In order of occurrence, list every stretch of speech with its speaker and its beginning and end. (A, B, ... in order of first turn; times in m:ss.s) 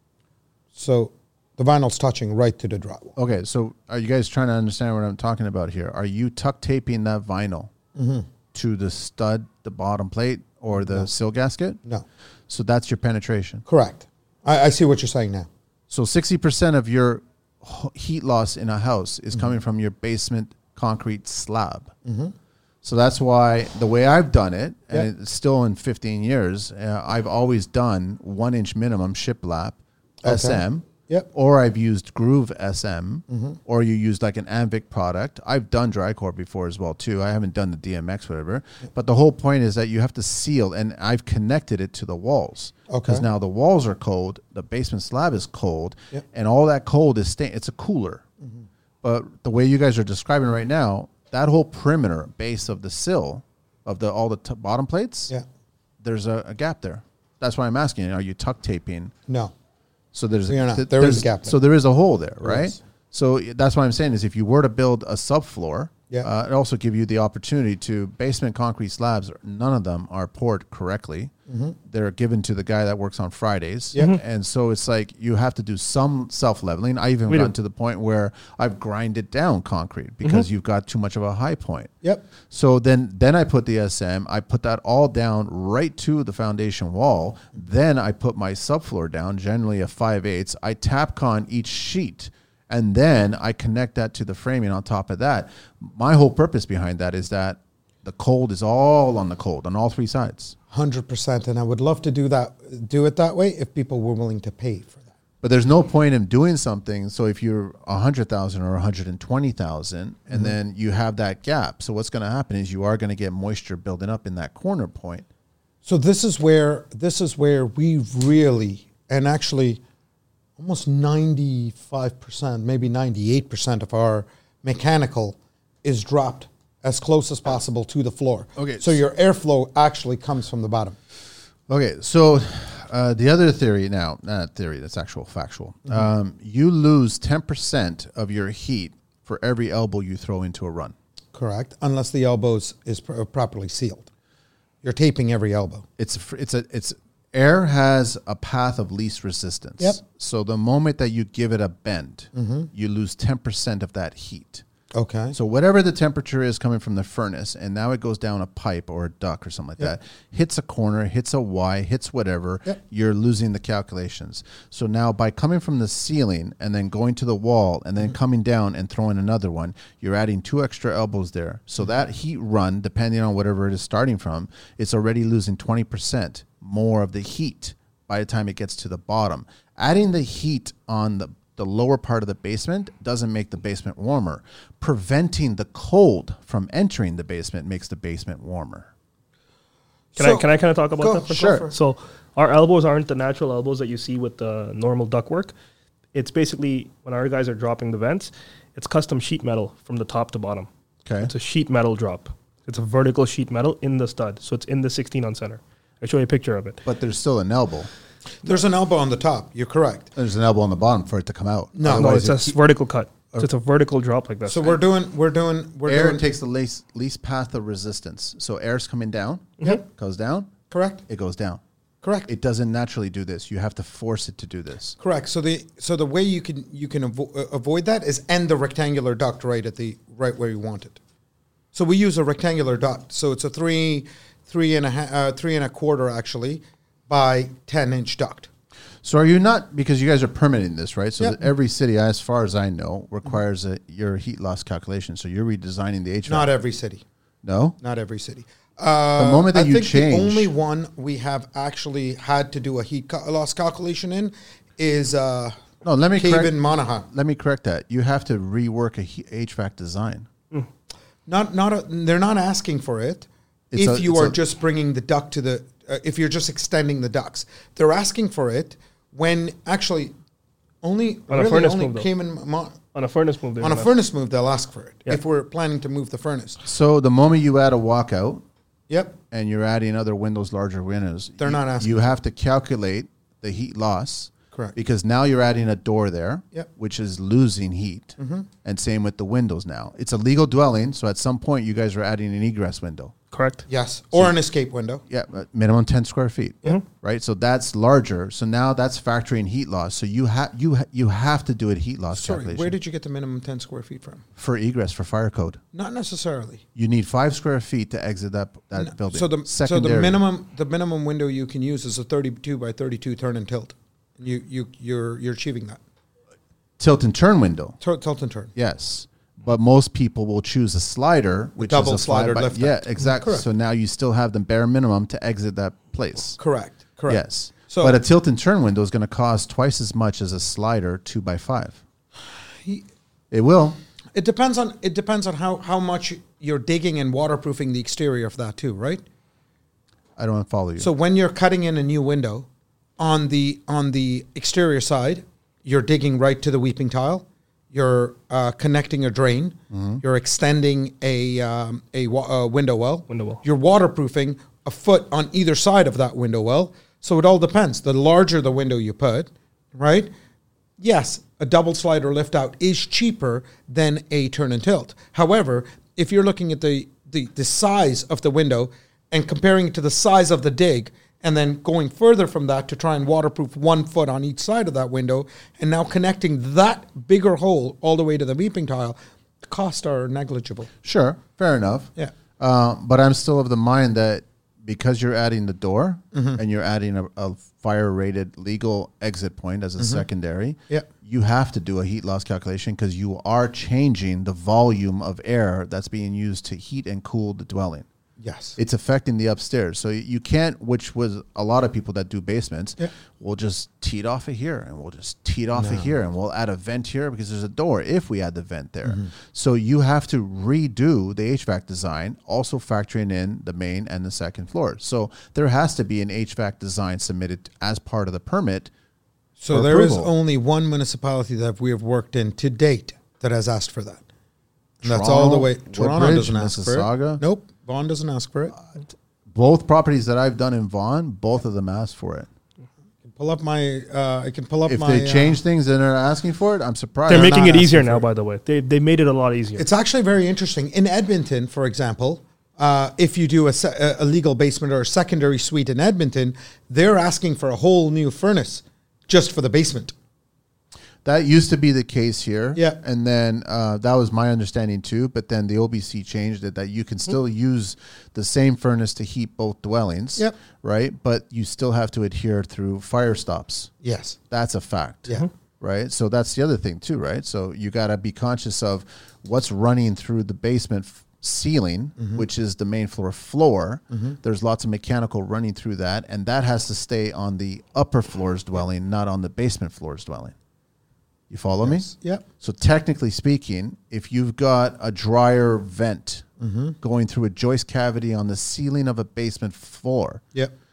0:00.8-0:03.2 A
0:03.2-0:07.7 B
0:08.0-0:08.3 A
0:08.5-0:11.8 B
0:10.8-0:11.1 A
0:12.5-0:13.6 B
0:13.7-0:15.5 A
0:15.9-0:21.9 B
0:22.0-0:22.3 A
0:22.8-0:48.2 B
0:30.2-0:31.3 A
0:33.3-0:33.6 A
0:42.9-0:43.2 A
0:49.0-0:55.3 B
0:56.0-0:59.1 B
0:59.3-0:59.5 A
1:00.1-1:11.3 B
1:00.5-1:01.6 A
1:02.4-1:02.8 A
1:11.5-1:11.8 A
1:11.9-1:21.9 B
1:22.5-1:40.6 B
1:40.7-1:45.1 A
1:45.4-1:55.3 B
1:50.3-1:50.6 A
1:55.8-1:59.8 A
2:00.6-2:11.0 A
2:08.6-2:09.0 B
2:11.7-2:20.9 B
2:21.3-2:24.1 A
2:24.8-2:25.8 A
2:26.0-2:34.6 B
2:32.4-2:32.7 A
2:34.9-2:35.4 A
2:35.3-3:08.9 B
3:10.1-3:10.5 A
3:10.2-3:15.5 C
3:11.0-3:11.7 A
3:11.3-3:11.6 B
3:16.1-3:20.7 C
3:21.0-3:21.3 B
3:21.2-3:26.8 C
3:26.8-3:27.9 B
3:28.4-3:30.1 A
3:30.2-3:32.6 B
3:31.8-3:32.2 A
3:31.9-3:34.8 C
3:34.5-3:36.2 A
3:35.9-3:40.5 B
3:40.7-3:41.0 A
3:41.1-3:41.6 B
3:42.0-3:42.3 A
3:42.3-3:45.0 B
3:45.0-3:51.0 A
3:51.7-3:58.5 A
3:59.0-4:06.5 B
4:06.3-4:07.0 A
4:07.4-4:07.8 B
4:07.8-4:15.6 A
4:09.2-4:10.5 B
4:15.8-4:16.6 B
4:16.2-4:17.1 A
4:17.1-4:20.3 B
4:21.3-4:30.1 A
4:23.7-4:24.4 B
4:30.8-4:32.8 A
4:31.3-4:32.1 C
4:32.9-4:33.9 C
4:33.6-4:36.6 A
4:36.6-4:38.4 B
4:38.9-4:39.2 A
4:39.3-4:53.1 B
4:41.4-4:42.0 A
4:48.2-4:48.5 A
4:53.3-4:53.6 C
4:53.7-4:55.0 A
4:55.1-5:02.8 B
5:02.1-5:04.2 A
5:04.4-5:05.6 B
5:05.7-5:06.6 A
5:06.8-5:10.2 B
5:08.8-5:15.8 A
5:16.8-5:17.8 B
5:17.8-5:18.5 A
5:18.6-5:26.4 B
5:21.6-5:23.5 A
5:26.4-5:28.0 A
5:27.1-5:31.8 B
5:33.3-5:33.8 B
5:34.2-5:39.0 A
5:40.2-5:40.9 B
5:40.8-5:42.5 A
5:43.0-6:00.1 A
5:49.7-5:50.0 B
5:53.1-5:53.4 C
6:00.8-6:20.7 A
6:20.8-6:37.9 B
6:26.1-6:26.4 A
6:29.8-6:30.0 A
6:38.2-6:38.6 A
6:38.6-6:58.7 B
6:45.6-6:45.9 A
6:59.4-7:04.0 A
6:59.5-7:00.1 B
7:04.8-7:07.2 B
7:04.8-7:08.6 A
7:09.3-7:12.3 B
7:13.0-7:15.4 A
7:14.7-7:17.6 B
7:17.1-7:18.1 A
7:17.1-7:19.6 C
7:19.6-7:29.9 A
7:31.0-7:43.7 B
7:43.8-7:44.2 A
7:44.3-8:00.3 B
8:01.3-8:01.9 B
8:01.6-8:02.2 A
8:02.4-8:06.3 B
8:06.4-8:06.8 A
8:06.8-8:10.2 B